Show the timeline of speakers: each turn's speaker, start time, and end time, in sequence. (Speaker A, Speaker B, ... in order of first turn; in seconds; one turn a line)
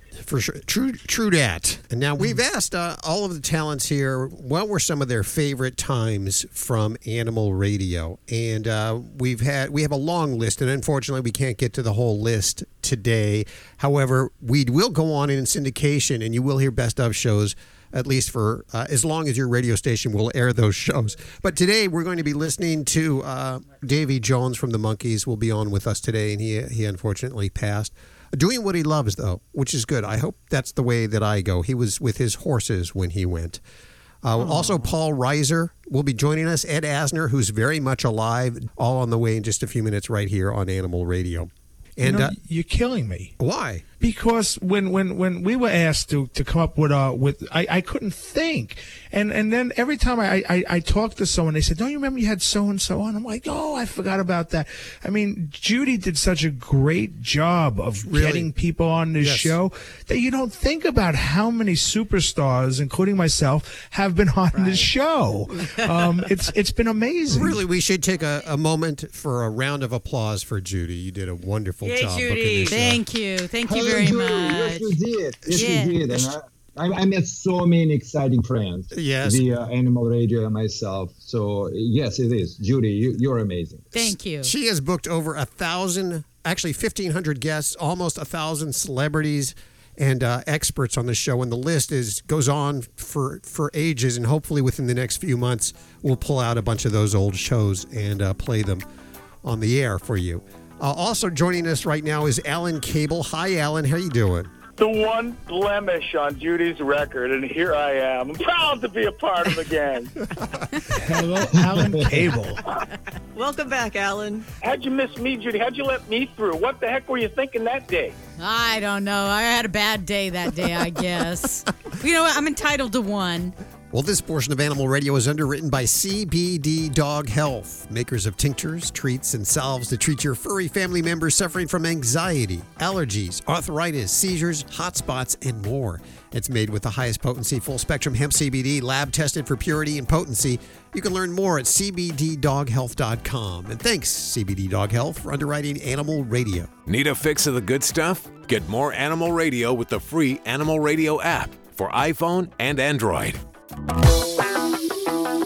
Speaker A: 0.2-33.6
Speaker A: 34.2-42.3
Speaker B: 34.4-34.7
Speaker C: 42.0-43.3
Speaker A: 43.4-43.8
Speaker C: 44.0-67.6
Speaker A: 58.1-58.5
Speaker A: 59.2-59.6
Speaker B: 64.5-64.9
Speaker A: 67.3-73.0
Speaker B: 71.8-72.8
Speaker D: 72.7-74.9
Speaker E: 73.7-84.0
Speaker D: 75.5-76.0
Speaker A: 78.9-79.4
Speaker D: 83.9-84.5
Speaker A: 84.4-98.8
Speaker A: 99.4-104.5
Speaker F: 104.8-110.1
Speaker C: 110.9-112.6
Speaker B: 113.3-114.5
Speaker F: 114.6-118.1
Speaker D: 118.4-123.5
Speaker A: 123.9-146.7
Speaker G: 146.9-153.4